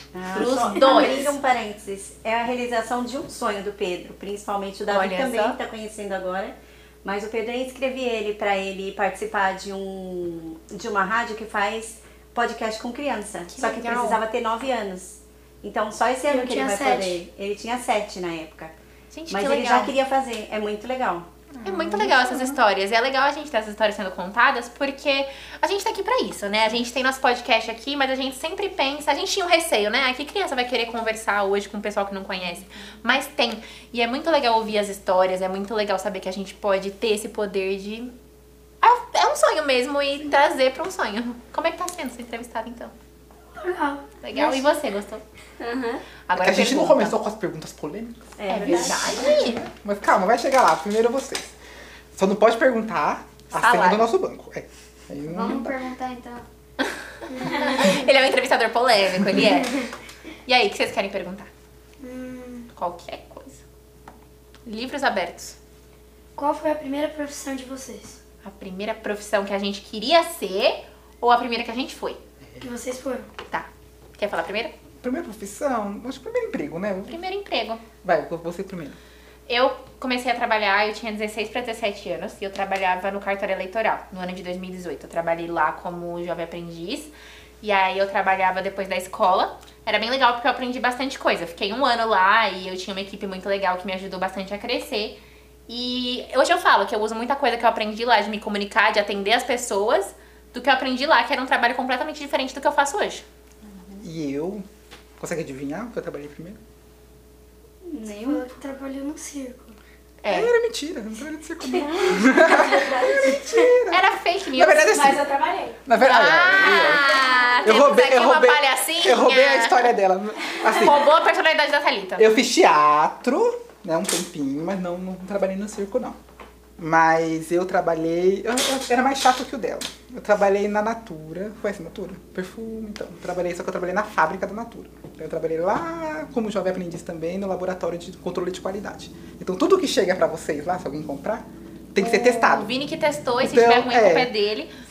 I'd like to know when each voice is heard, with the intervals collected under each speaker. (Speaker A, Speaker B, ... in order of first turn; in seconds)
Speaker A: 0.1-18.7, 19.3-21.3, 48.4-49.1
Speaker B: 0.3-1.4, 4.9-5.6, 13.5-14.2, 19.1-19.9, 21.6-38.1, 38.8-42.9, 44.2-45.2, 46.3-47.1, 48.5-49.6, 53.5-54.1, 56.8-59.9, 60.5-61.5, 62.7-63.6, 64.7-65.5, 68.4-72.2, 73.5-74.7, 77.1-77.8, 79.5-87.1, 87.6-103.2, 110.2-110.5, 113.9-119.9, 120.6-122.3, 142.0-144.7
Speaker C: 16.3-17.2, 43.5-44.6, 57.3-57.8, 62.0-62.7, 66.3-68.2, 72.6-73.3, 108.2-109.7, 111.9-112.5
Speaker D: 21.5-22.6, 46.4-51.5, 52.1-55.8, 75.0-77.2, 78.0-79.0, 104.0-104.6, 105.2-106.6, 110.3-115.2, 115.8-121.1, 122.2-126.2, 126.8-142.7, 143.4-144.3
Speaker E: 45.6-46.1, 55.3-56.4, 107.8-108.4, 116.9-117.7